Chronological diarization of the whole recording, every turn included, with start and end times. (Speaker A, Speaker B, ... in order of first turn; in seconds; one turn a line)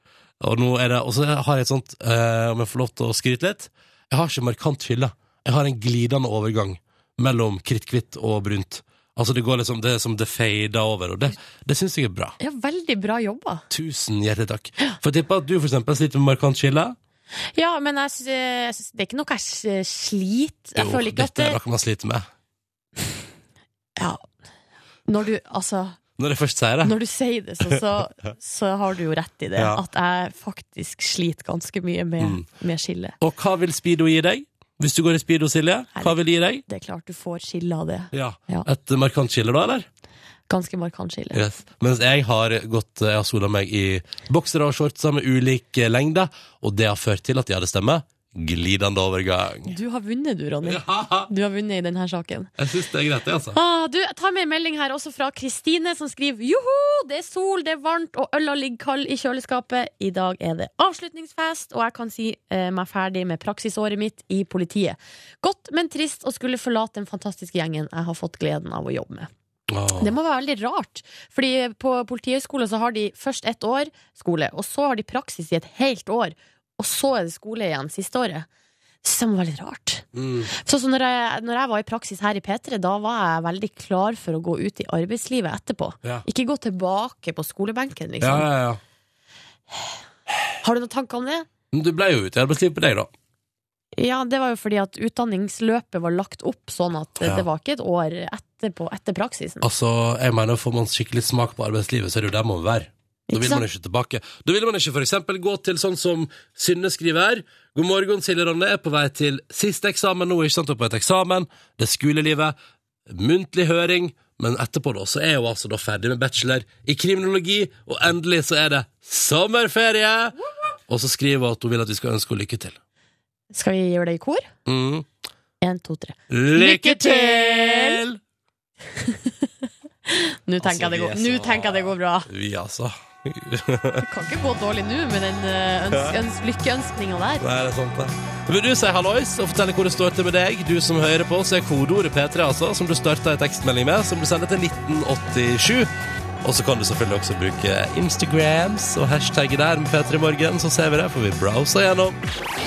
Speaker A: 0.4-12.3
Speaker B: 12.4-13.6
Speaker A: 13.7-16.9
Speaker B: 17.5-21.6
Speaker A: 20.8-22.3
Speaker B: 24.0-24.2
Speaker B: 25.1-26.0
Speaker A: 26.2-26.9
Speaker B: 26.8-33.1
Speaker A: 29.6-29.8
Speaker A: 32.2-32.4
Speaker A: 33.2-36.6
Speaker B: 35.9-38.7
Speaker A: 38.1-39.9
Speaker B: 40.5-41.4
Speaker A: 41.3-49.7
Speaker B: 49.7-52.5
Speaker A: 50.6-51.3
Speaker A: 52.6-53.6
Speaker B: 53.5-69.3
Speaker A: 69.7-70.1
Speaker B: 70.0-78.5
Speaker B: 79.0-88.5
Speaker A: 80.1-80.5
Speaker A: 88.2-88.8
Speaker B: 90.6-91.5
Speaker A: 91.7-93.1
Speaker B: 94.0-99.6
Speaker A: 97.2-97.5
Speaker A: 99.6-112.5
Speaker B: 103.3-103.7
Speaker A: 113.1-120.3
Speaker A: 120.9-122.8
Speaker B: 123.5-124.5
Speaker A: 124.7-125.1
Speaker B: 125.6-128.0
Speaker A: 126.3-128.2
Speaker B: 129.0-129.5
Speaker B: 130.1-132.3
Speaker A: 130.6-134.0
Speaker B: 134.0-137.4
Speaker A: 135.9-136.2
Speaker A: 137.4-145.9
Speaker A: 146.4-152.2